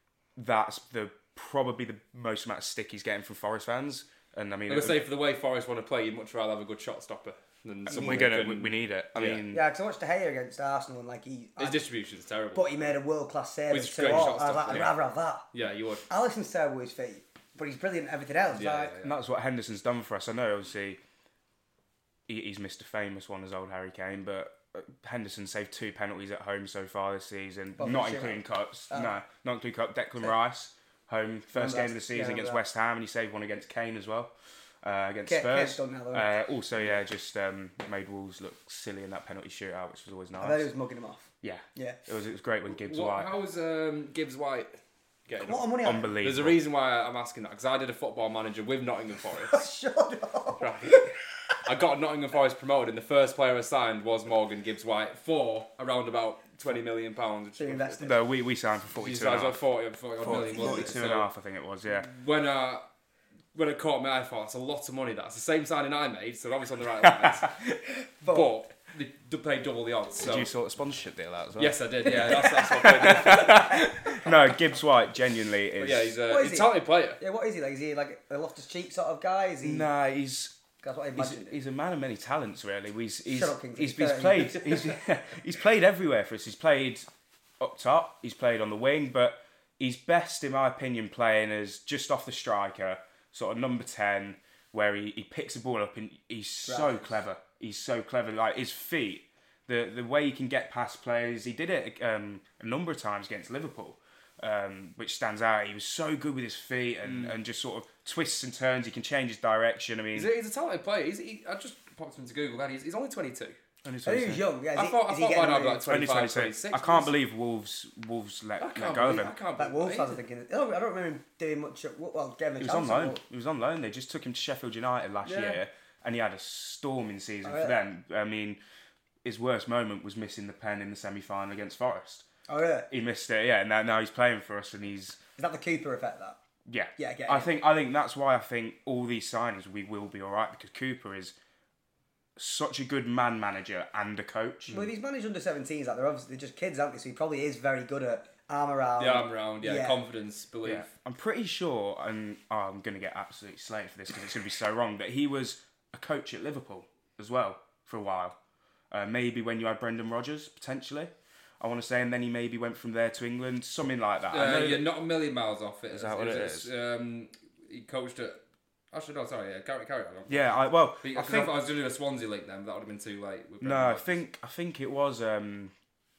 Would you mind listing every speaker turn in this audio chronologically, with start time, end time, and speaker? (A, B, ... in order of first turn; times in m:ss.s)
0:00.4-0:05.0 A
0:04.7-0:09.4 B
0:07.9-0:09.6 A
0:09.5-0:11.8 C
0:11.6-0:13.0 B
0:12.5-0:15.5 C
0:13.7-0:15.0 B
0:14.1-0:14.9 A
0:15.5-0:16.0 B
0:16.1-0:18.9 C
0:18.5-0:19.2 B
0:19.0-0:21.0 A
0:22.3-0:34.3 A
0:27.8-0:29.1 C
0:31.5-0:32.6 C
0:34.8-0:40.7 A
0:35.3-0:36.3 C
0:40.4-0:42.0 C
0:41.4-0:43.3 A
0:42.7-0:44.7 B
0:45.3-0:49.6 B
0:45.4-0:46.2 C
0:45.8-0:46.6 A
0:49.4-0:51.0 C
0:50.6-0:58.1 B
0:57.6-0:58.2 C
0:58.0-0:59.6 A
0:59.0-1:01.3 B
1:00.2-1:02.1 A
1:00.4-1:00.9 C
1:01.9-1:02.8 B
1:03.5-1:07.5 B
1:07.0-1:07.8 A
1:08.2-1:08.5 C
1:08.3-1:10.5 B
1:10.2-1:16.2 A
1:11.6-1:13.8 B
1:12.3-1:13.9 C
1:15.8-1:17.2 B
1:16.3-1:19.9 C
1:19.6-1:20.6 A
1:20.8-1:21.5 C
1:21.2-1:27.0 A
1:23.3-1:24.9 C
1:27.6-1:50.3 A
1:36.6-1:37.1 C
1:47.0-1:47.3 B
1:50.1-1:53.6 B
1:53.8-1:54.5 A
1:54.0-1:55.9 C
1:54.8-1:57.1 B
1:55.8-1:59.3 A
1:58.6-2:00.2 B
1:59.6-2:03.2 C
2:02.6-2:08.6 A
2:05.2-2:05.6 B
2:07.4-2:07.8 C
2:09.2-2:12.2 A
2:12.5-2:12.9 C
2:12.9-2:15.2 A
2:15.4-2:16.4 C
2:16.6-2:21.3 A
2:17.0-2:17.5 C
2:22.4-2:24.8 A
2:24.7-2:30.0 C
2:29.0-2:30.9 B
2:30.6-2:38.4 A
2:38.9-2:44.9 A
2:44.3-2:48.4 B
2:45.9-2:46.7 A
2:48.9-2:54.2 B
2:50.3-2:51.5 A
2:53.6-2:55.7 A